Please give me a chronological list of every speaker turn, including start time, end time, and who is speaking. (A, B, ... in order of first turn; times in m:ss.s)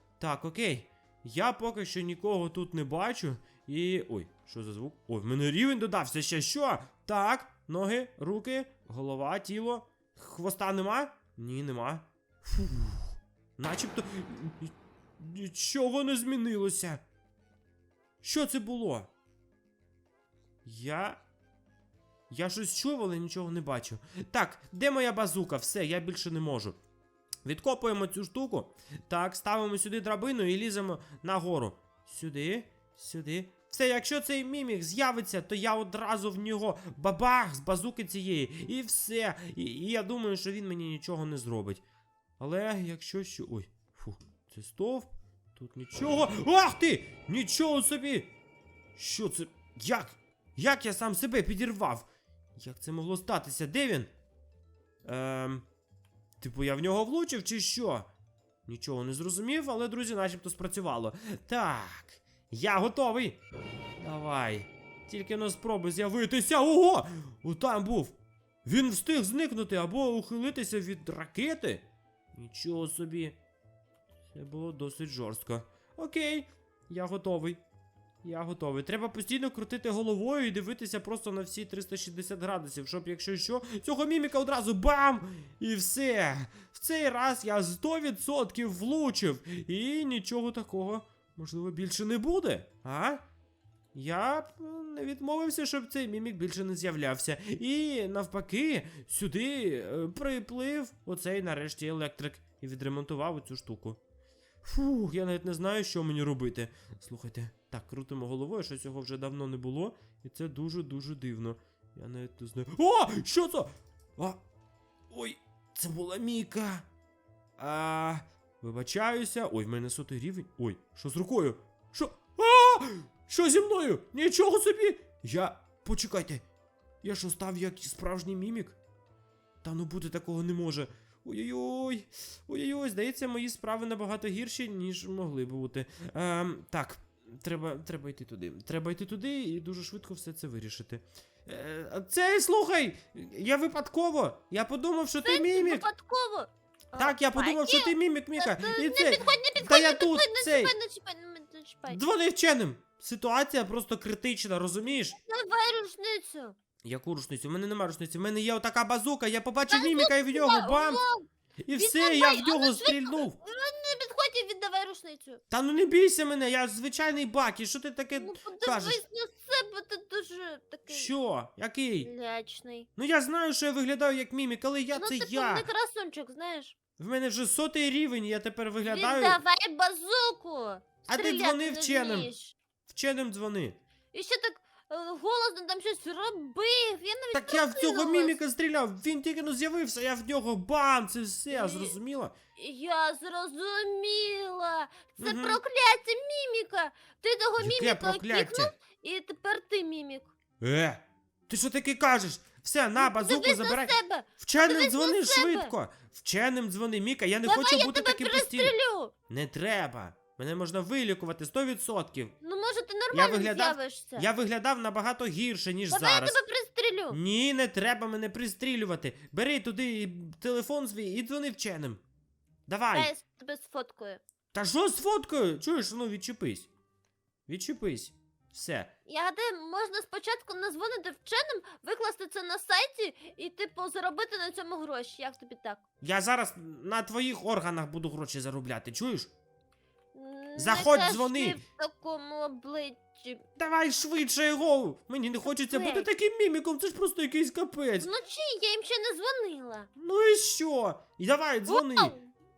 0:00.2-0:17.0 A
0:18.2-0:19.1 A
0:20.6-0:21.2 A
0:22.3-0:26.8 A
0:27.4-0:41.8 A
0:42.4-0:48.3 A
0:49.0-0:54.1 A
0:55.0-0:55.6 A
0:56.4-0:58.1 A
0:58.6-1:03.4 A
1:04.0-1:13.4 A
1:14.3-1:17.6 A
1:18.2-1:33.2 A
1:33.9-1:44.0 A
1:44.6-1:54.4 A
1:55.1-1:56.9 A
1:57.6-2:06.4 A
2:07.0-2:08.8 A
2:09.6-2:25.9 A
2:25.2-2:32.0 B
2:27.0-2:30.7 A
2:31.9-2:35.2 A
2:35.1-2:36.6 B
2:36.8-2:41.0 A
2:39.7-2:45.4 B
2:41.6-2:43.4 A
2:45.5-2:49.0 A
2:48.1-2:51.1 B
2:50.9-2:52.1 A
2:52.0-2:52.9 B
2:53.0-2:55.6 A
2:54.9-2:56.8 B
2:57.0-2:59.4 A
2:58.8-3:02.6 B
3:01.1-3:02.3 A
3:02.9-3:03.8 A
3:04.1-3:08.4 B
3:07.3-3:12.3 A
3:11.5-3:11.9 B
3:12.6-3:20.3 B
3:15.2-3:15.6 A
3:17.6-3:18.7 A
3:20.6-3:28.7 A
3:23.0-3:25.7 B
3:27.4-3:29.1 B
3:29.3-3:32.3 A
3:32.4-3:34.3 B
3:33.1-3:36.4 A
3:35.9-3:37.2 B
3:37.1-3:42.0 A
3:42.7-3:43.1 A
3:42.9-3:44.2 B
3:44.5-3:46.7 A
3:47.5-3:48.9 A
3:49.1-3:55.8 B
3:56.0-3:59.3 A
4:00.1-4:03.4 B
4:00.6-4:01.6 A
4:03.6-4:08.1 A
4:05.4-4:06.1 B
4:08.0-4:09.9 B
4:10.0-4:12.2 A
4:11.7-4:12.3 B